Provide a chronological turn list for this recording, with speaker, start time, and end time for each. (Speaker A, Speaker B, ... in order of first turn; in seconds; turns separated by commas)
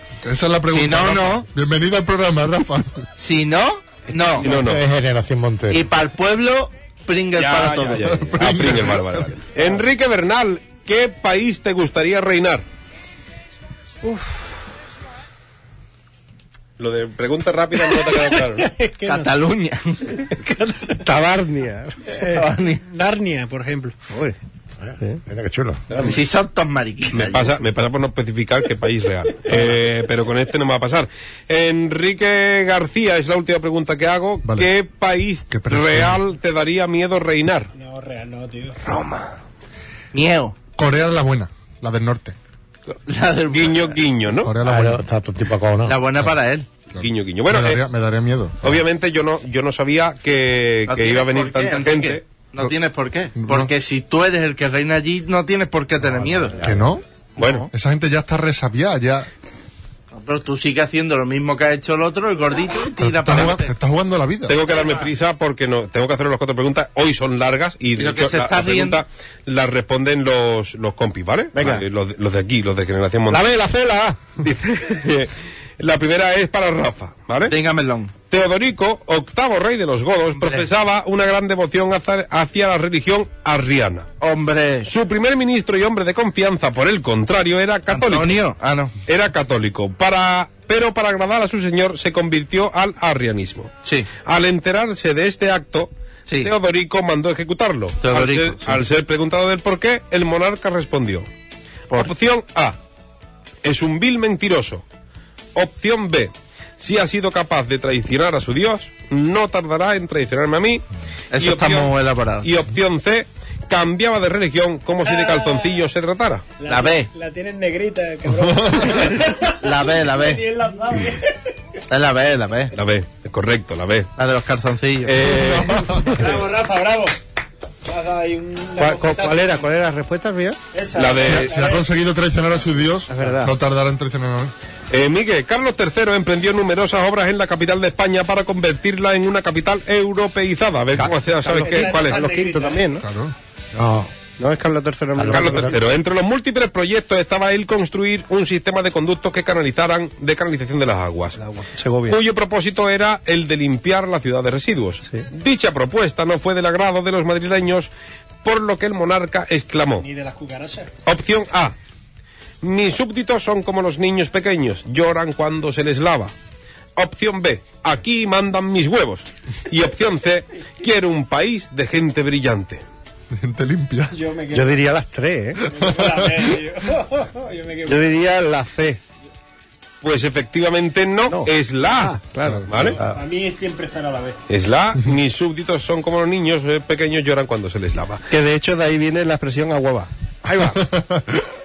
Speaker A: 0.2-3.0, Speaker B: 0.7-1.5, Speaker B: 3.2-4.5, Speaker C: 4.4-4.8, Speaker D: 4.4-5.9, Speaker B: 5.7-8.1, Speaker C: 7.4-12.6, Speaker A: 8.1-9.3, Speaker E: 14.0-14.5, Speaker C: 16.8-18.7, Speaker E: 17.9-19.4, Speaker B: 19.1-20.3, Speaker E: 20.2-21.0, Speaker F: 21.0-22.1, Speaker E: 22.2-24.0, Speaker B: 22.2-22.8, Speaker F: 24.1-24.4, Speaker D: 24.8-25.8, Speaker B: 25.9-27.5, Speaker C: 27.1-37.7, Speaker A: 35.5-36.2, Speaker E: 37.7-38.8, Speaker B: 38.9-39.3, Speaker B: 40.1-40.6, Speaker A: 40.8-42.4, Speaker B: 43.1-44.0, Speaker C: 43.5-44.5, Speaker A: 44.4-45.0, Speaker D: 44.6-46.0, Speaker B: 45.9-46.7, Speaker A: 46.9-48.8, Speaker C: 47.0-47.8, Speaker C: 48.6-52.2, Speaker B: 50.9-56.7, Speaker A: 53.4-53.7, Speaker A: 56.6-57.0, Speaker C: 57.4-57.7, Speaker B: 57.4-57.7, Speaker A: 57.7-59.3, Speaker B: 60.1-63.7, Speaker A: 63.0-64.6, Speaker C: 64.5-73.5, Speaker B: 68.0-69.0, Speaker F: 71.5-71.8, Speaker F: 73.3-74.2, Speaker C: 74.4-77.5, Speaker B: 77.5-78.1, Speaker C: 78.3-84.1, Speaker B: 80.3-80.7, Speaker B: 84.2-84.9, Speaker C: 84.9-88.3, Speaker B: 87.9-88.9, Speaker C: 89.1-93.7, Speaker B: 93.8-94.1, Speaker C: 94.2-101.3, Speaker B: 98.0-98.8, Speaker C: 101.9-102.8, Speaker C: 103.6-104.8, Speaker C: 105.5-110.8, Speaker B: 111.3-112.5, Speaker C: 111.4-116.5, Speaker E: 115.0-115.9, Speaker E: 116.6-121.4, Speaker B: 116.7-117.1, Speaker A: 118.3-119.0, Speaker B: 119.6-120.5, Speaker B: 121.9-122.7, Speaker C: 122.7-124.1, Speaker B: 124.2-125.2, Speaker C: 125.0-126.3, Speaker A: 125.2-126.4, Speaker E: 126.1-127.2, Speaker E: 127.8-129.7, Speaker F: 128.8-130.6, Speaker E: 130.7-131.8, Speaker C: 130.9-131.6, Speaker A: 131.2-134.5, Speaker F: 133.1-133.5, Speaker C: 134.9-142.2, Speaker F: 141.5-143.0, Speaker E: 141.5-142.9, Speaker A: 143.0-143.3, Speaker D: 143.7-144.1, Speaker F: 144.4-145.8, Speaker D: 145.2-145.7, Speaker C: 145.3-151.4, Speaker F: 151.6-152.2, Speaker C: 152.1-157.9, Speaker C: 158.4-160.1, Speaker E: 160.0-160.9, Speaker C: 161.1-161.8, Speaker C: 162.6-166.3, Speaker C: 167.0-172.8, Speaker A: 173.3-174.2, Speaker E: 174.1-174.8, Speaker F: 174.5-175.7, Speaker E: 175.7-178.0, Speaker F: 177.9-179.0, Speaker C: 180.0-182.2, Speaker F: 181.3-183.2, Speaker C: 182.7-183.0, Speaker E: 183.0-184.4, Speaker C: 184.5-188.2, Speaker F: 188.3-190.8, Speaker A: 190.7-191.4